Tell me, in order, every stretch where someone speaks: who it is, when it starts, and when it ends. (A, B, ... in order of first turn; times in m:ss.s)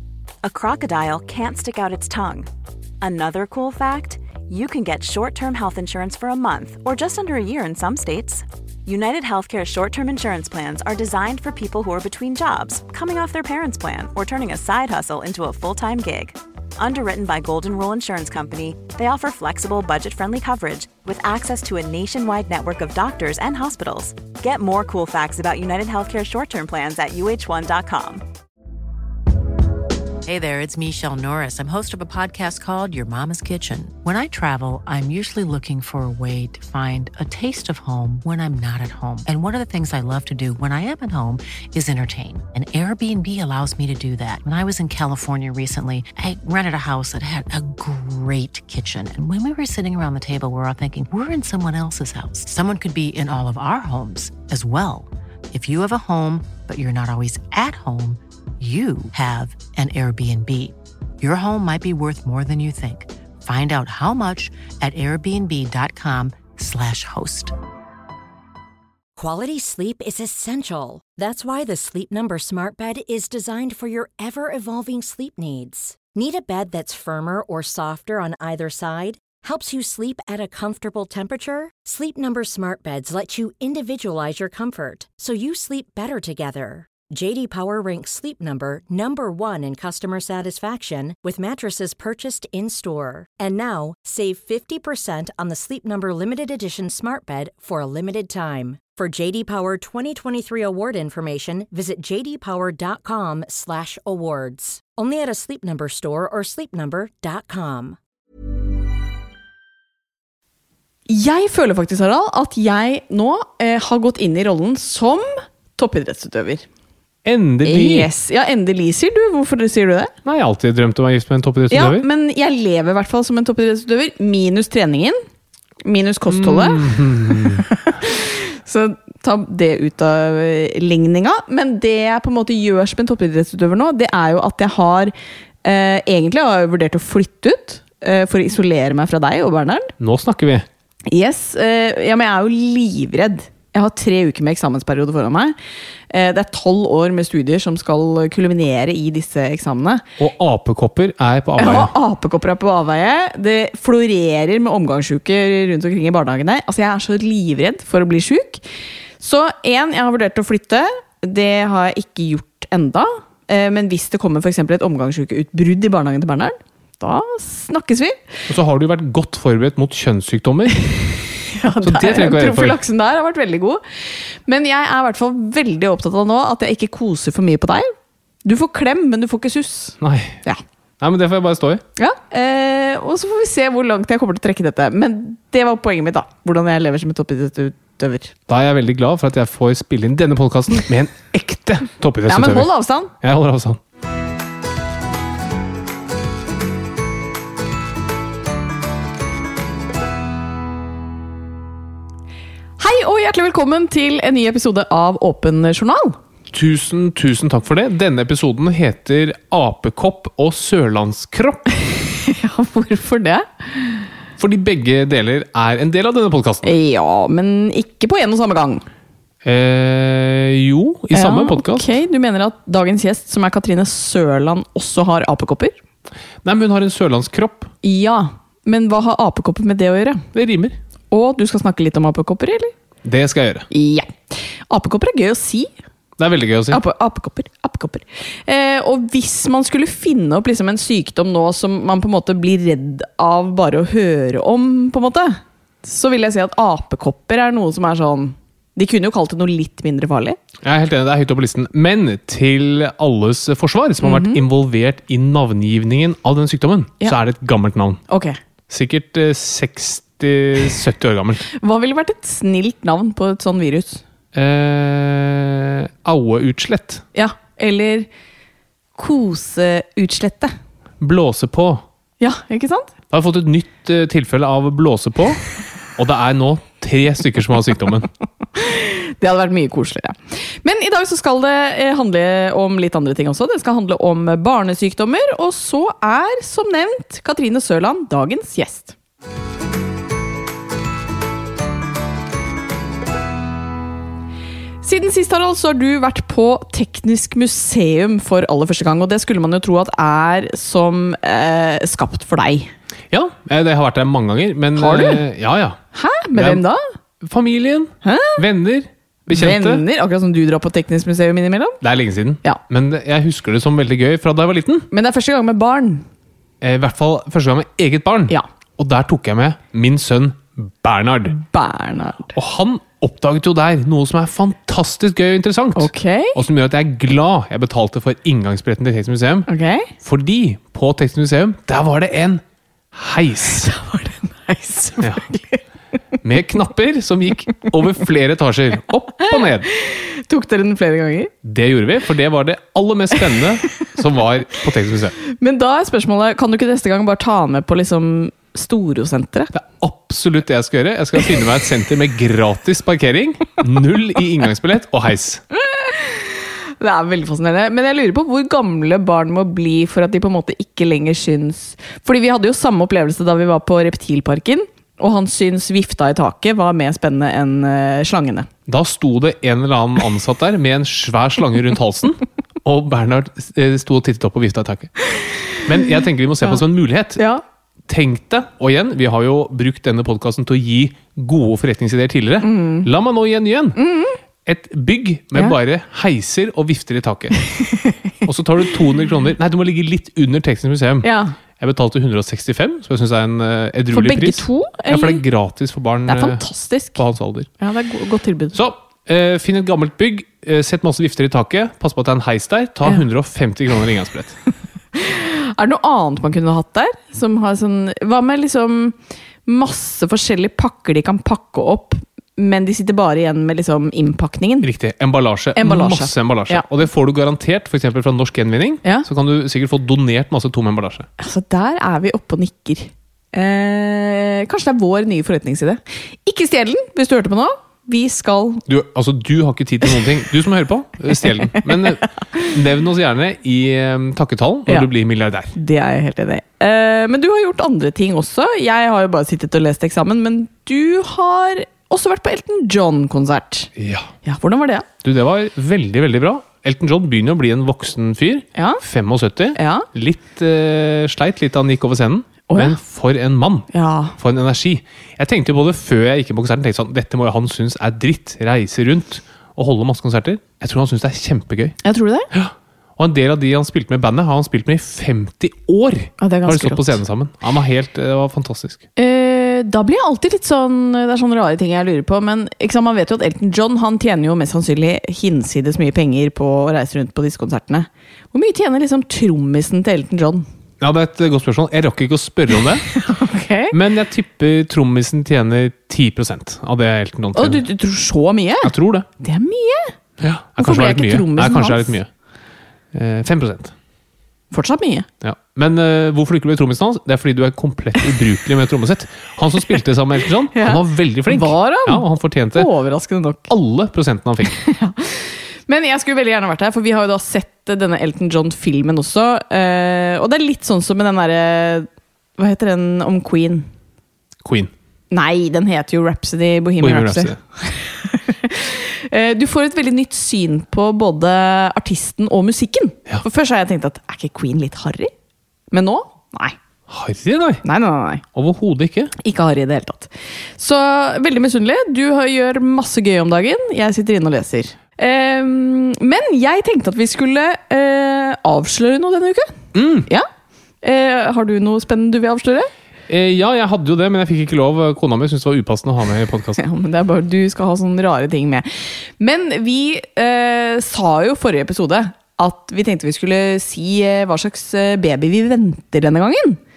0:00.4-0:02.5 A
0:03.0-0:28.2 A
0:30.2-1:07.5 B
1:09.2-1:48.0 C
1:51.1-1:56.6 D
1:57.2-1:58.1 E
1:57.6-2:00.1 D
2:00.2-2:02.0 E
2:01.7-2:05.2 D
2:05.8-2:06.9 D
2:06.3-2:07.6 E
2:07.7-2:15.1 D
2:15.6-2:19.9 D
2:20.0-2:20.6 E
2:21.1-2:25.5 D
2:26.1-2:30.0 D
2:30.2-2:31.9 E
2:31.6-2:38.6 D
2:39.2-2:48.2 D
2:48.5-2:50.9 E
2:51.5-2:57.9 D
2:51.8-2:52.8 E
2:58.4-3:00.6 D
3:00.0-3:00.4 E
3:01.0-3:01.8 E
3:02.0-3:08.3 D
3:08.5-3:12.7 E
3:12.3-3:13.1 D
3:13.2-3:13.8 E
3:22.8-3:26.2 D
3:26.5-3:31.6 E
3:32.2-3:34.1 D
3:34.4-3:36.7 E
3:36.6-3:38.8 D
3:39.4-3:41.9 E
3:41.1-3:45.7 D
3:46.4-3:47.7 E
3:47.8-3:50.2 D
3:50.3-3:50.8 E
3:51.1-3:52.7 D
3:53.0-3:53.7 E
3:53.7-3:55.7 D
3:56.2-3:56.8 E
3:56.7-4:10.4 D
4:10.6-4:18.0 E
4:14.0-4:14.4 D
4:18.1-4:18.4 D
4:18.7-4:21.4 E
4:21.5-4:24.0 D
4:24.3-4:27.0 E
4:27.1-4:28.1 D
4:29.0-4:30.5 D
4:31.0-4:31.8 E
4:32.2-4:32.9 D
4:33.1-4:35.4 E
4:36.0-4:38.1 E
4:38.5-4:48.9 D
4:54.8-5:02.7 D
5:03.1-5:05.8 E
5:04.8-5:05.2 D
5:05.9-5:06.8 D
5:06.3-5:06.6 E
5:07.2-5:09.8 E
5:08.0-5:08.4 D
5:09.3-5:11.8 D
5:11.8-5:14.9 E
5:14.9-5:16.0 D
5:16.6-5:21.4 E
5:21.4-5:22.3 D
5:22.3-5:29.5 E
5:25.7-5:26.4 D
5:29.5-5:29.9 D
5:30.0-5:33.7 E
5:33.6-5:35.6 D
5:35.0-5:35.3 E
5:36.2-5:39.7 E
5:39.7-5:41.3 D
5:41.4-5:45.1 E
5:45.3-5:49.5 D
5:49.5-5:55.4 E
5:55.7-5:56.2 D
5:56.8-6:08.5 D
6:08.7-6:14.9 E
6:15.6-6:17.2 E
6:17.2-6:17.4 D
6:17.9-6:23.8 E
6:22.4-6:22.9 D
6:23.8-6:24.2 D
6:24.4-6:27.4 E
6:28.2-6:31.1 E
6:31.0-6:31.3 D
6:31.6-6:36.4 E
6:33.9-6:35.2 D
6:36.1-6:37.0 D
6:37.0-6:37.5 E
6:37.6-6:38.6 D
6:38.5-6:44.3 E
6:44.9-6:54.7 D
6:54.6-7:01.1 E
6:55.6-6:56.6 D
7:01.2-7:08.6 D
7:08.7-7:15.5 E
7:15.5-7:23.7 D
7:23.8-7:24.1 E
7:24.2-7:24.8 D
7:25.0-7:41.8 E
7:28.5-7:28.8 D
7:29.5-7:29.9 D
7:32.5-7:32.8 D
7:33.7-7:34.2 D
7:41.8-7:42.3 D
7:42.3-7:48.8 E
7:46.2-7:47.0 D
7:49.0-8:00.5 D
8:00.8-8:02.8 E
8:02.9-8:03.7 D
8:03.7-8:07.6 E
8:07.4-8:09.9 D
8:08.6-8:09.1 E
8:10.2-8:12.1 E
8:10.6-8:11.9 D
8:12.9-8:13.7 E
8:14.5-8:15.1 D
8:15.2-8:22.7 E
8:20.5-8:23.5 D
8:23.5-8:24.6 E
8:24.4-8:33.7 D
8:34.4-8:34.7 E
8:35.1-8:45.1 D
8:36.8-8:37.4 E
8:45.7-8:46.6 D
8:46.9-8:47.6 E
8:47.6-8:48.2 D
8:48.3-8:49.1 E
8:49.2-8:59.6 D
8:59.7-9:00.1 E
9:00.8-9:02.7 D
9:03.1-9:06.6 E
9:06.6-9:16.6 D